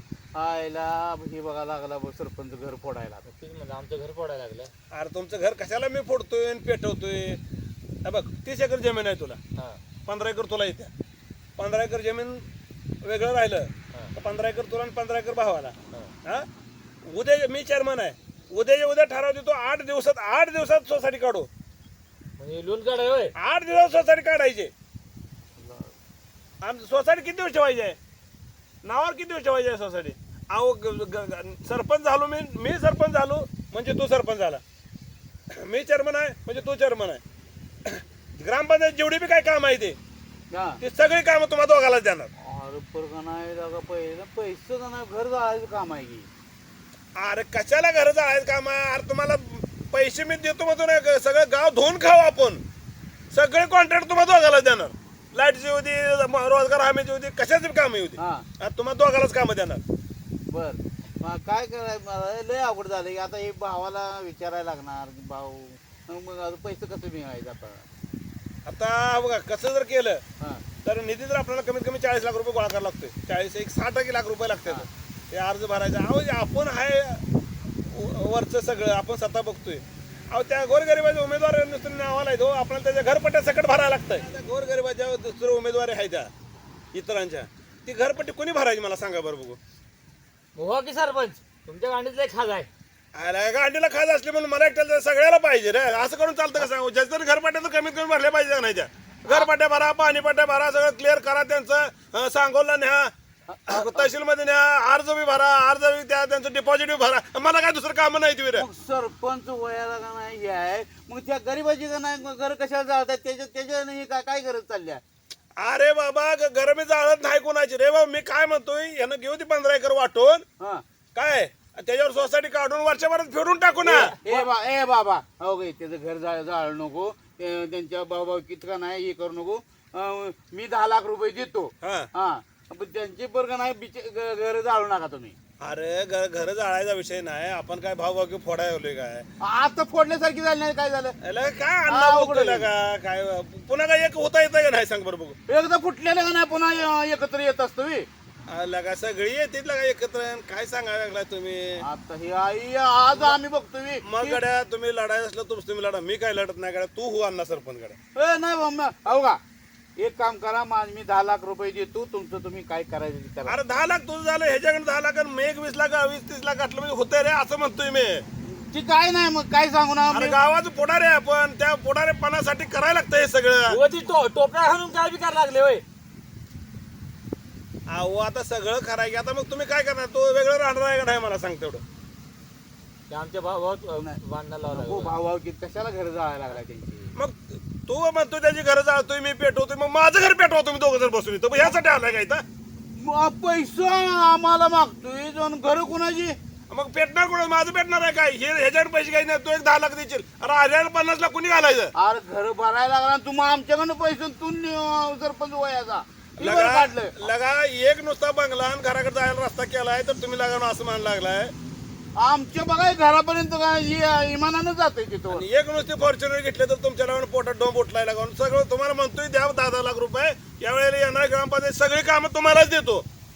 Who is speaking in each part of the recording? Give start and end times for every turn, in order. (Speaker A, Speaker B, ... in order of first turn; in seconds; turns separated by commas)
Speaker A: 0.3-3.3, Speaker B: 3.2-4.7, Speaker C: 4.9-7.4, Speaker C: 8.0-9.4, Speaker C: 10.1-10.9, Speaker C: 11.6-12.5, Speaker C: 13.0-16.5, Speaker C: 17.0-21.5, Speaker B: 22.4-23.3, Speaker C: 23.4-24.7, Speaker A: 25.6-25.9, Speaker C: 26.6-28.0, Speaker C: 28.8-34.6, Speaker C: 35.5-37.2, Speaker C: 37.9-40.0, Speaker A: 40.5-40.8, Speaker C: 40.8-42.3, Speaker A: 42.4-46.3, Speaker C: 47.2-52.6, Speaker C: 53.3-59.8, Speaker A: 58.2-58.5, Speaker A: 60.5-67.9, Speaker C: 68.7-70.2, Speaker C: 70.8-77.2, Speaker C: 77.9-86.3, Speaker C: 86.9-89.6, Speaker B: 90.5-92.7, Speaker C: 93.2-103.1, Speaker A: 103.5-104.1, Speaker C: 103.7-108.7, Speaker A: 108.6-115.0, Speaker C: 115.6-120.5, Speaker C: 121.2-124.2, Speaker B: 123.8-124.5, Speaker A: 123.9-135.3, Speaker C: 131.8-132.1, Speaker C: 135.6-139.3, Speaker A: 139.4-141.2, Speaker C: 141.2-145.4, Speaker A: 141.9-142.7, Speaker A: 145.5-148.1, Speaker C: 148.5-151.8, Speaker A: 151.8-154.4, Speaker C: 154.0-158.0, Speaker A: 158.2-159.4, Speaker A: 160.0-163.6, Speaker C: 163.5-168.2, Speaker A: 168.5-170.4, Speaker C: 170.1-173.8, Speaker B: 173.7-175.8, Speaker C: 177.9-181.8, Speaker B: 183.1-185.1, Speaker A: 184.7-187.2, Speaker C: 187.2-192.4, Speaker A: 193.0-196.3, Speaker C: 196.7-201.9, Speaker A: 202.0-207.2, Speaker C: 206.4-211.5, Speaker A: 212.2-215.5, Speaker C: 215.3-223.1